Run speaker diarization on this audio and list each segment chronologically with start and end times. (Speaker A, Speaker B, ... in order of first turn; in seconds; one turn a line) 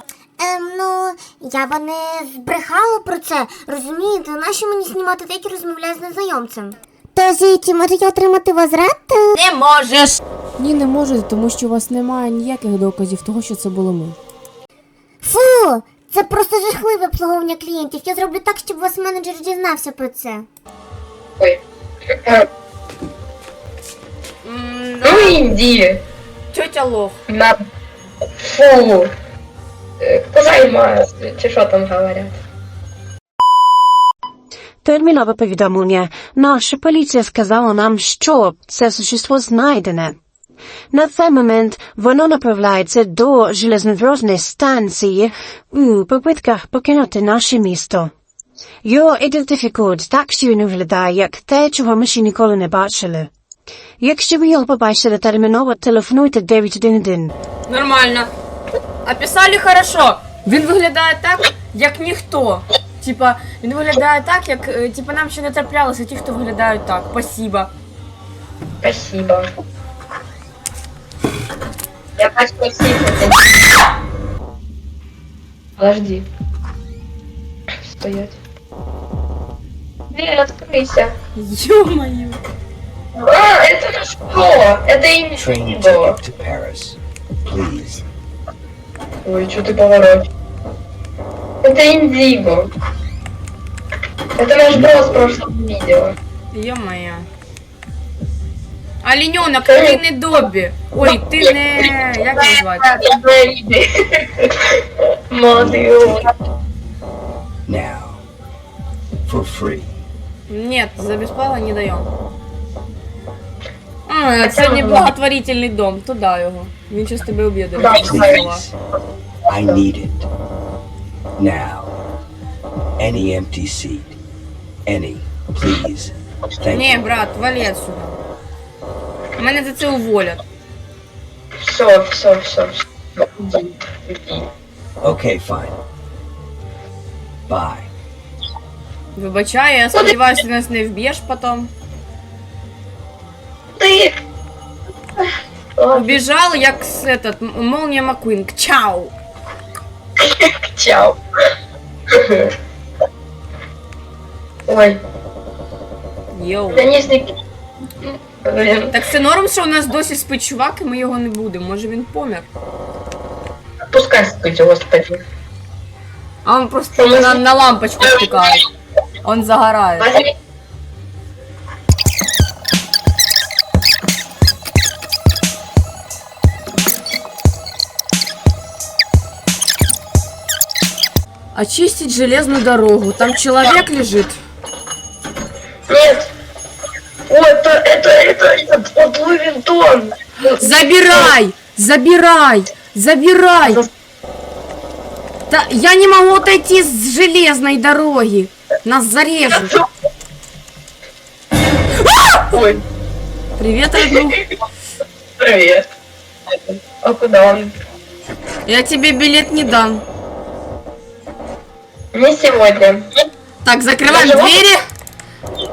Speaker A: 0.4-9.4
Speaker B: 9.3-14.2
Speaker A: 15.2-20.4
Speaker B: 24.4-25.5
Speaker C: 25.0-26.0
Speaker B: 26.5-27.2
Speaker C: 27.3-27.6
Speaker C: 28.4-29.1
Speaker C: 30.0-32.4
Speaker D: 34.8-40.2
Speaker D: 40.9-48.1
Speaker D: 48.8-53.3
Speaker D: 54.0-57.3
Speaker B: 57.7-58.3
Speaker B: 59.0-67.7
Speaker C: 68.8-69.5
Speaker C: 72.2-73.4
Speaker C: 75.8-76.2
Speaker C: 77.9-78.4
Speaker C: 80.1-81.1
Speaker B: 81.3-82.4
Speaker C: 83.2-86.2
Speaker E: 85.3-88.0
Speaker C: 89.2-90.2
Speaker C: 91.6-92.7
Speaker C: 94.4-96.2
Speaker E: 94.7-95.4
Speaker B: 96.5-97.3
Speaker B: 99.0-103.0
Speaker C: 99.7-100.0
Speaker C: 102.3-104.5
Speaker C: 105.3-106.2
Speaker E: 105.5-106.0
Speaker E: 107.7-108.2
Speaker E: 109.2-109.9
Speaker B: 110.5-112.1
Speaker B: 114.0-118.6
Speaker C: 114.4-115.1
Speaker C: 117.8-118.4
Speaker E: 117.8-118.7
Speaker E: 119.5-120.3
Speaker E: 121.4-122.0
Speaker E: 123.0-124.2
Speaker E: 124.8-127.0
Speaker B: 126.7-128.2
Speaker B: 129.4-130.4
Speaker C: 131.6-132.8
Speaker C: 133.4-134.4
Speaker E: 135.0-135.8
Speaker E: 137.5-137.9
Speaker B: 139.1-141.7
Speaker C: 143.8-144.1
Speaker C: 145.8-146.2
Speaker B: 145.9-149.1
Speaker C: 150.2-151.2
Speaker C: 154.7-155.0
Speaker B: 156.3-157.1
Speaker C: 156.7-157.3
Speaker C: 158.0-158.9
Speaker B: 158.9-162.5
Speaker C: 163.9-165.2
Speaker B: 166.4-168.6
Speaker C: 167.0-167.4
Speaker B: 169.2-170.1
Speaker C: 170.0-170.3
Speaker B: 181.5-184.4
Speaker C: 185.9-186.3
Speaker C: 187.3-191.3
Speaker B: 190.4-193.8
Speaker C: 193.6-193.9
Speaker B: 195.5-199.7
Speaker C: 199.5-199.8
Speaker C: 202.5-202.8
Speaker B: 203.6-204.4
Speaker C: 205.4-205.8
Speaker C: 206.8-207.7
Speaker B: 208.7-210.0
Speaker C: 212.1-213.1
Speaker B: 213.6-214.8
Speaker C: 214.1-214.6